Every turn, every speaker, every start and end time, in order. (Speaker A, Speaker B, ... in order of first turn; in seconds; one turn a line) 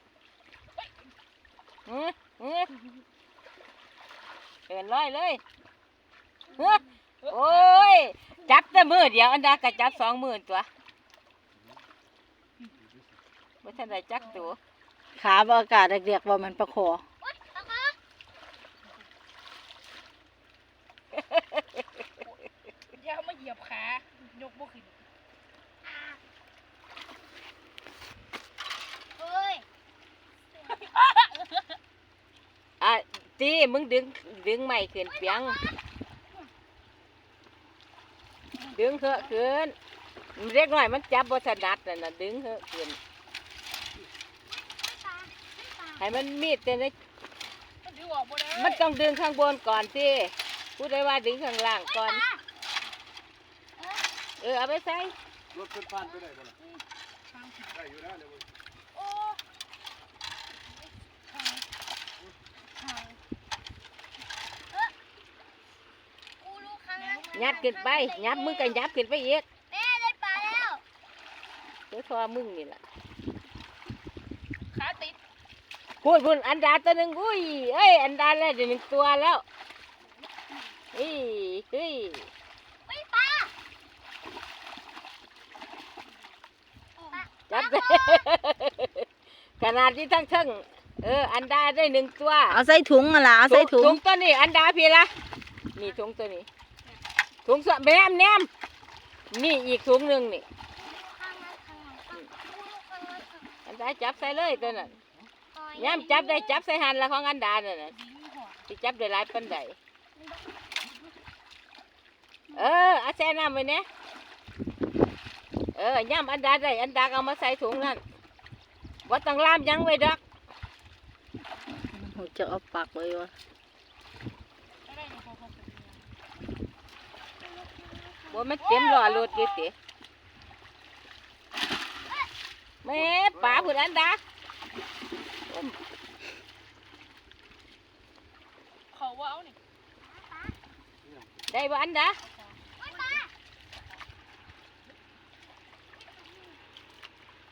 Speaker A: 1.9-2.7
Speaker A: 4.7-5.4
Speaker B: 6.5-8.0
Speaker A: 6.5-10.7
Speaker C: 9.4-9.8
Speaker D: 11.5-11.8
Speaker D: 12.8-13.2
Speaker A: 13.6-14.6
Speaker B: 13.7-14.5
Speaker E: 15.2-17.0
Speaker C: 17.2-18.0
Speaker B: 22.9-25.0
Speaker C: 25.8-26.2
Speaker C: 29.2-29.6
Speaker B: 30.7-31.6
Speaker A: 32.8-35.6
Speaker C: 35.1-35.8
Speaker B: 38.6-39.4
Speaker A: 38.7-39.7
Speaker A: 40.4-43.0
Speaker C: 44.4-46.0
Speaker A: 46.0-46.9
Speaker B: 47.8-48.8
Speaker A: 48.5-52.2
Speaker C: 51.9-52.4
Speaker C: 53.8-54.1
Speaker A: 54.4-55.1
Speaker D: 55.5-56.5
Speaker C: 56.0-56.3
Speaker B: 56.6-57.8
Speaker D: 57.7-58.5
Speaker B: 58.9-59.4
Speaker B: 61.3-61.6
Speaker B: 62.8-63.2
Speaker C: 66.4-68.9
Speaker B: 67.0-67.7
Speaker A: 67.3-69.4
Speaker C: 69.7-70.8
Speaker A: 71.9-72.8
Speaker B: 74.7-75.2
Speaker A: 76.0-79.4
Speaker A: 80.9-82.3
Speaker C: 82.8-83.5
Speaker C: 87.0-88.3
Speaker A: 87.5-89.1
Speaker A: 89.6-92.6
Speaker E: 92.5-94.0
Speaker A: 93.4-95.1
Speaker A: 95.7-96.5
Speaker A: 97.4-98.5
Speaker A: 99.3-100.4
Speaker C: 100.7-103.7
Speaker A: 103.7-104.9
Speaker B: 104.3-105.0
Speaker C: 105.5-106.6
Speaker A: 105.7-107.9
Speaker B: 107.9-108.6
Speaker A: 108.7-109.8
Speaker C: 110.2-110.5
Speaker A: 112.5-113.8
Speaker A: 115.7-118.0
Speaker A: 119.0-120.2
Speaker E: 121.9-123.3
Speaker B: 124.9-126.1
Speaker B: 127.5-129.3
Speaker C: 128.1-129.6
Speaker A: 128.3-129.7
Speaker A: 132.8-134.2
Speaker D: 132.9-133.8
Speaker A: 135.5-135.8
Speaker B: 138.9-139.6
Speaker C: 140.0-140.6
Speaker D: 141.0-141.4
Speaker A: 141.5-142.2
Speaker B: 142.2-143.1
Speaker C: 142.8-143.3
Speaker C: 145.9-146.6